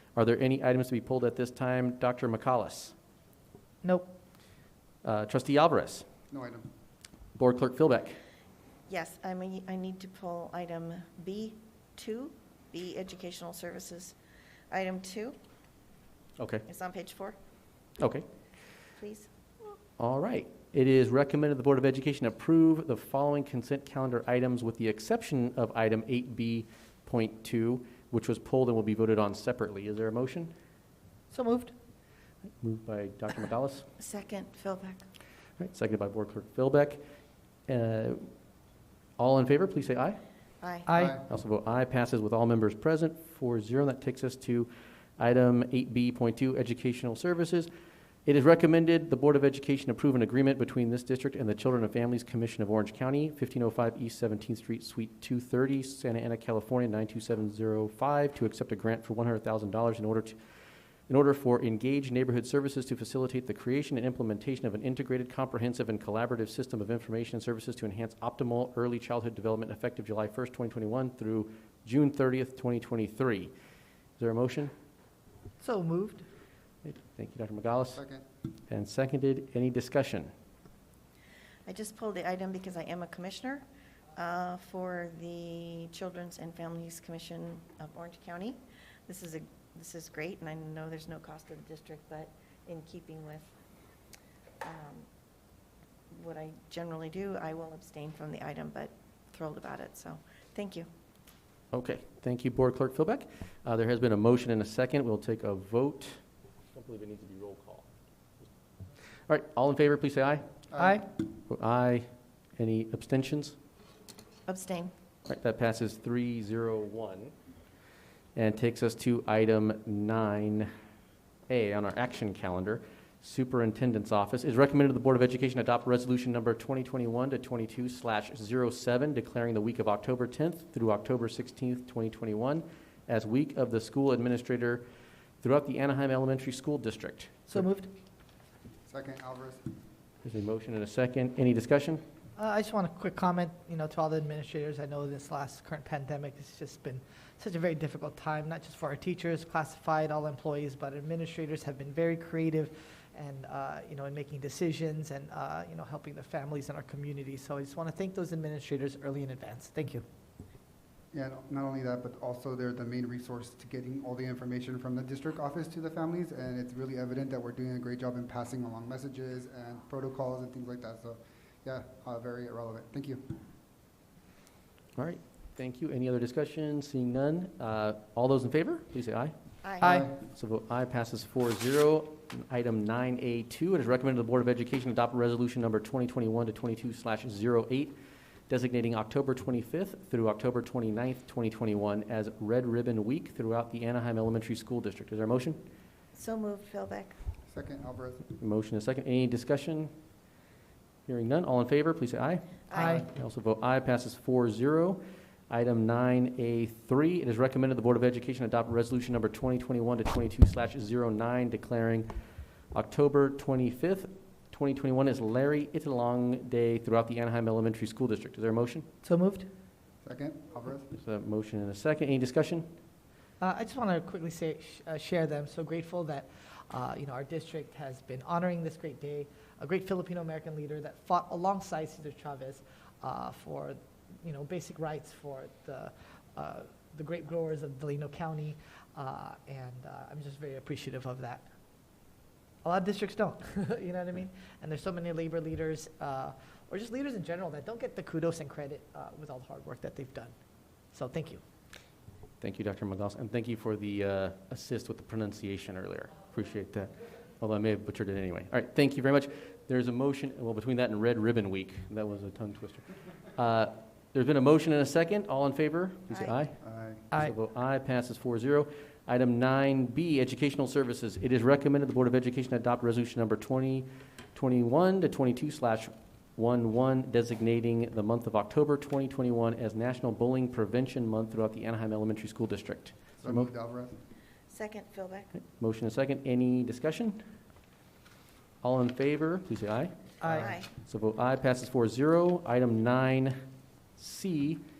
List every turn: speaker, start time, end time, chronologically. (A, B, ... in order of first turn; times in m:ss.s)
0:00.1-0:02.9 A
0:03.8-0:04.1 B
0:05.0-0:06.1 A
0:06.3-0:06.7 C
0:07.4-0:08.2 A
0:08.9-0:14.2 D
0:14.7-0:15.4 D
0:16.4-0:16.6 A
0:16.7-0:17.4 D
0:18.0-0:18.2 A
0:19.0-0:19.3 D
0:20.0-0:30.5 A
0:31.3-0:31.7 B
0:32.6-0:33.9 A
0:34.0-0:35.0 D
0:35.6-0:37.0 A
0:37.7-0:38.3 A
0:39.2-0:40.2 A
0:40.6-0:40.9 D
0:40.9-0:41.2 B
0:41.0-0:41.2 C
0:41.3-0:47.7 A
0:48.2-1:00.4 A
1:01.1-1:13.5 A
1:14.2-1:14.7 A
1:15.6-1:16.2 B
1:16.8-1:18.0 A
1:18.0-1:18.2 C
1:18.7-1:20.3 A
1:21.7-1:23.6 D
1:24.1-1:33.5 D
1:34.6-1:35.1 D
1:36.1-1:40.9 D
1:41.7-1:46.2 A
1:46.7-1:47.9 A
1:49.3-1:50.5 A
1:50.7-1:51.0 C
1:50.8-1:51.0 B
1:51.5-1:53.6 A
1:54.5-1:54.9 D
1:55.3-1:57.3 A
1:58.3-2:00.7 A
2:01.5-2:14.8 A
2:15.4-2:17.7 A
2:17.5-2:17.9 B
2:18.8-2:19.6 C
2:20.2-2:22.0 A
2:22.4-2:40.0 B
2:41.1-2:53.4 C
2:55.0-2:59.3 A
2:59.6-2:59.9 D
2:59.8-3:00.1 B
2:59.8-3:00.1 C
2:59.9-3:08.0 A
3:08.5-3:15.6 A
3:16.1-3:17.2 D
3:17.5-3:18.3 C
3:18.3-3:19.9 A
3:21.1-3:32.1 A
3:22.7-3:23.0 D
3:22.8-3:23.0 B
3:32.7-3:38.8 A
3:39.0-3:39.5 B
3:40.0-3:40.9 C
3:40.9-3:42.7 A
3:43.4-4:01.4 B
4:02.6-4:10.3 B
4:10.9-4:11.4 B
4:12.4-4:26.6 A
4:26.1-4:26.4 D
4:26.6-4:27.0 C
4:27.1-4:43.5 A
4:43.2-4:44.0 C
4:44.5-4:45.3 D
4:45.4-4:47.2 A
4:48.6-4:53.4 A
4:50.2-4:50.5 B
4:50.3-4:50.7 D
4:54.0-4:54.6 A